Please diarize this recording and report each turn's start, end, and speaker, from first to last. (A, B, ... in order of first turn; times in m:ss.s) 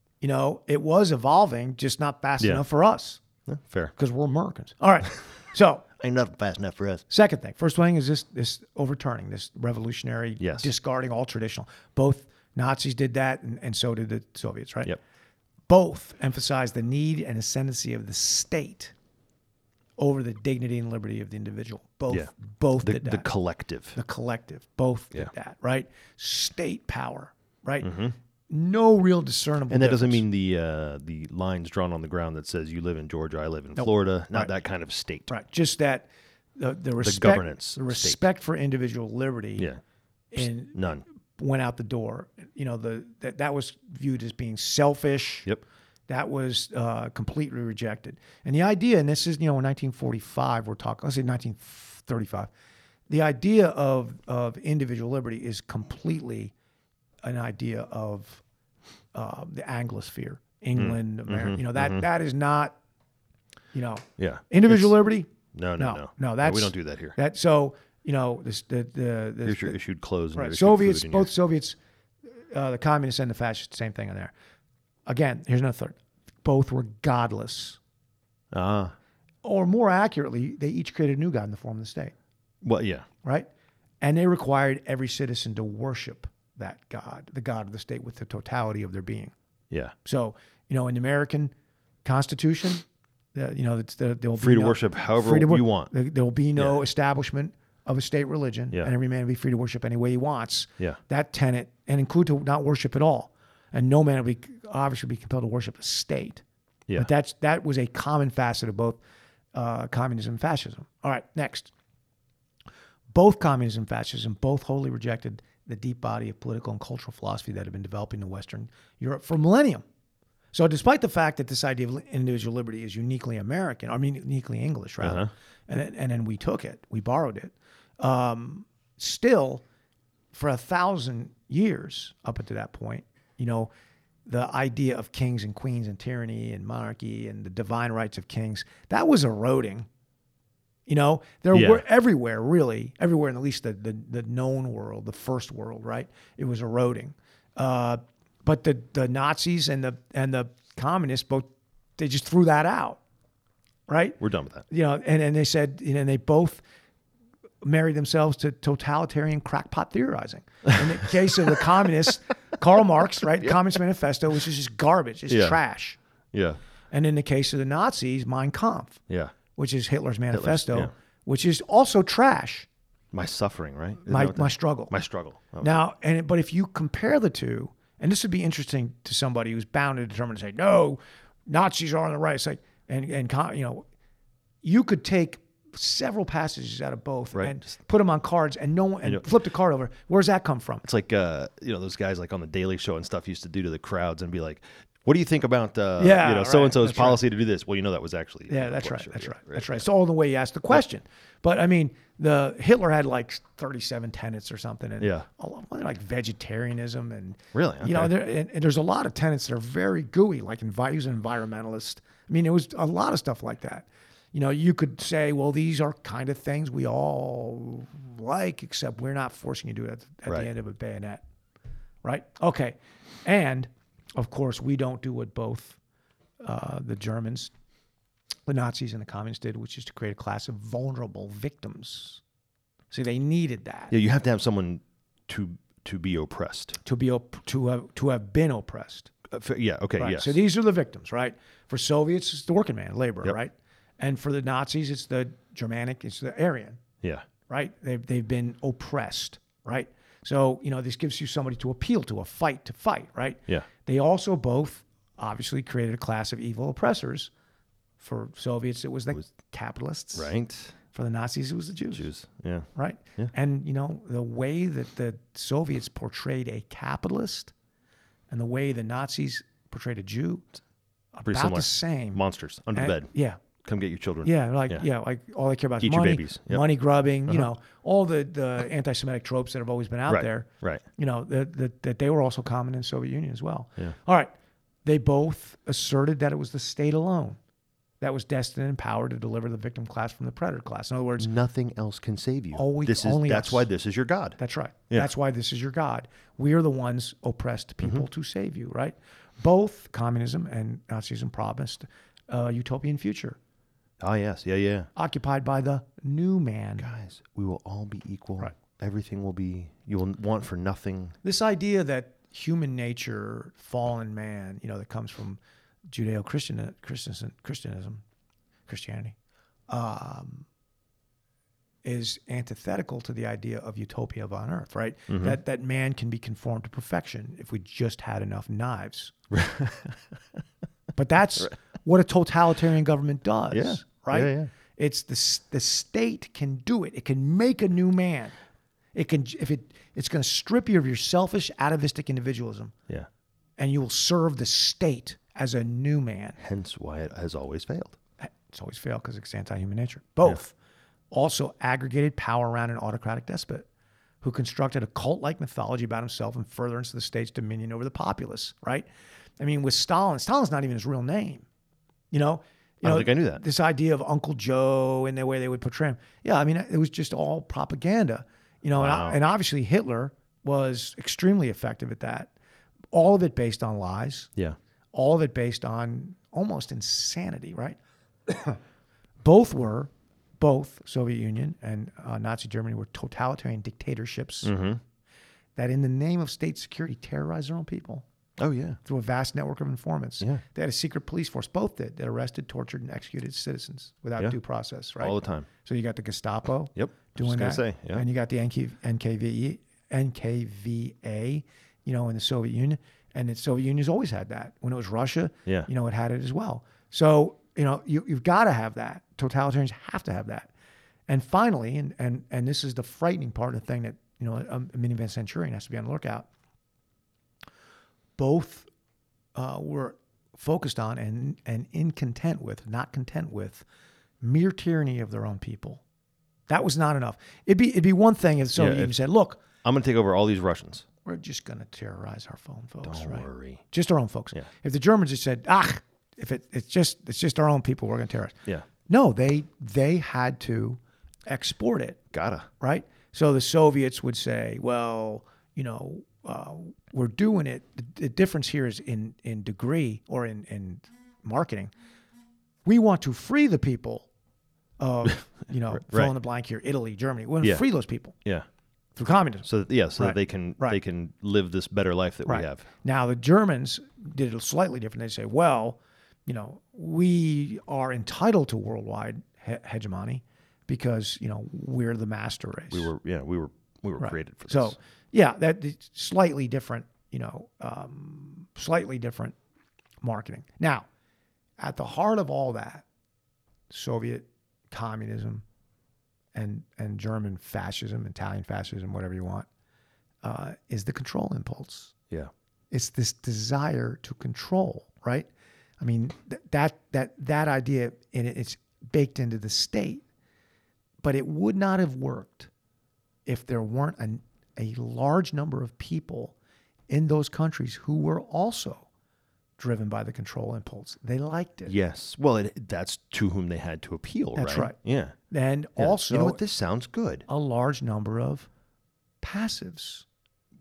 0:00.2-0:03.2 A
0:02.4-0:02.6 B
0:03.4-0:03.9 B
0:04.0-0:05.8 A
0:06.0-0:07.0 B
0:07.1-0:15.0 A
0:10.4-0:10.7 B
0:15.7-0:18.9 A
0:20.0-0:23.3 A
0:22.1-0:24.0 B
0:23.9-0:27.9 A
0:27.8-0:28.1 B
0:28.5-0:30.2 A
0:29.7-0:35.3 B
0:33.7-0:34.5 A
0:35.3-0:39.7 A
0:37.0-0:38.2 B
0:40.3-0:40.8 A
0:40.7-0:41.0 B
0:41.4-0:45.5 A
0:46.1-0:52.5 A
0:53.1-0:56.5 A
0:57.2-0:58.4 A
0:59.1-1:02.8 A
1:00.8-1:02.0 B
1:03.7-1:09.8 A
1:04.2-1:05.0 B
1:05.5-1:07.2 B
1:09.4-1:11.3 B
1:10.3-1:11.8 A
1:12.5-1:14.3 A
1:15.1-1:17.8 A
1:18.5-1:18.9 B
1:19.4-1:22.1 A
1:22.6-1:23.0 B
1:23.2-1:23.5 A
1:24.0-1:29.3 A
1:30.0-1:31.5 A
1:32.0-1:46.4 A
1:34.4-1:35.9 B
1:46.9-1:49.0 A
1:49.5-1:51.7 A
1:53.1-1:59.8 A
2:00.5-2:09.6 A
2:05.0-2:05.3 B
2:10.3-2:13.7 A
2:14.2-2:19.9 A
2:20.9-2:33.0 A
2:21.5-2:21.8 B
2:33.9-2:36.6 A
2:34.2-2:34.6 B
2:37.6-2:46.0 A
2:45.3-2:45.6 B
2:46.3-2:46.6 B
2:46.9-2:49.0 A
2:49.1-2:49.3 B
2:49.5-2:52.7 A
2:50.3-2:50.9 B
2:53.1-2:55.8 B
2:54.0-2:54.9 A
2:55.6-3:03.8 A
3:04.6-3:10.8 A
3:07.3-3:07.7 B
3:10.8-3:19.8 B
3:16.0-3:17.2 A
3:18.5-3:41.2 A
3:25.0-3:25.3 B
3:27.5-3:28.1 B
3:42.0-3:45.8 A
3:46.4-3:47.5 A
3:48.5-3:52.2 A
3:52.9-3:53.9 A
3:53.9-3:56.8 B
3:56.8-3:59.1 A
3:59.3-4:00.4 B
4:00.0-4:06.8 A
4:07.5-4:17.3 A
4:18.0-4:20.3 A
4:20.1-4:20.8 B
4:20.9-4:22.1 A
4:21.9-4:23.3 B
4:22.7-4:27.5 A
4:28.3-4:30.4 A
4:31.1-4:32.2 A
4:31.2-4:34.8 B
4:32.7-4:33.4 A
4:34.2-4:44.3 A
4:35.8-4:36.6 B
4:40.1-4:40.8 B
4:44.8-4:47.4 A
4:48.0-4:51.3 A
4:51.2-4:54.4 B
4:52.5-4:53.7 A
4:54.4-5:03.4 A
5:04.0-5:04.9 B
5:05.0-5:06.9 A
5:06.8-5:11.2 B
5:11.2-5:15.4 A
5:15.9-5:18.0 A
5:18.7-5:19.2 A
5:19.7-5:20.4 A
5:21.8-5:29.1 A
5:25.1-5:25.4 B
5:29.3-5:30.0 B
5:30.9-5:38.3 A
5:33.5-5:34.5 B
5:38.9-5:42.7 A
5:43.6-5:46.4 A
5:46.4-5:48.0 B
5:48.2-5:50.5 A
5:51.1-5:53.6 A
5:54.2-5:58.9 A
5:59.4-6:01.4 A
6:02.1-6:12.3 A
6:02.8-6:03.4 B
6:08.8-6:09.2 B
6:12.9-6:14.3 A
6:14.9-6:18.6 A
6:19.2-6:24.5 A
6:24.4-6:24.8 B
6:25.6-6:28.0 A
6:28.4-6:28.8 B
6:28.8-6:50.5 A
6:35.0-6:35.5 B
6:36.7-6:38.0 B
6:51.1-6:56.3 A
6:58.2-6:58.7 A
6:59.3-7:03.6 A
7:04.2-7:05.8 A
7:06.5-7:09.4 A
7:08.5-7:09.0 B
7:09.6-7:10.8 B
7:11.0-7:22.0 A
7:12.8-7:13.6 B
7:22.1-7:22.5 B
7:22.6-7:31.7 A
7:32.6-7:34.1 A
7:34.8-7:38.2 A
7:35.7-7:36.1 B
7:39.0-7:40.8 A
7:39.4-7:42.6 B
7:42.2-7:52.9 A
7:52.7-7:54.8 B
7:54.0-7:59.4 A
8:00.0-8:00.9 A
8:01.6-8:02.8 A
8:03.7-8:05.4 A
8:06.3-8:09.5 A
8:10.2-8:11.9 A
8:12.7-8:15.3 A
8:15.8-8:20.0 A
8:21.0-8:22.5 A
8:23.2-8:26.3 A
8:26.9-8:28.9 A
8:29.6-8:31.7 A
8:31.7-8:35.2 B
8:34.4-8:34.8 A
8:35.3-8:36.4 A
8:35.8-8:37.2 B
8:37.3-8:38.5 A
8:39.2-8:40.0 A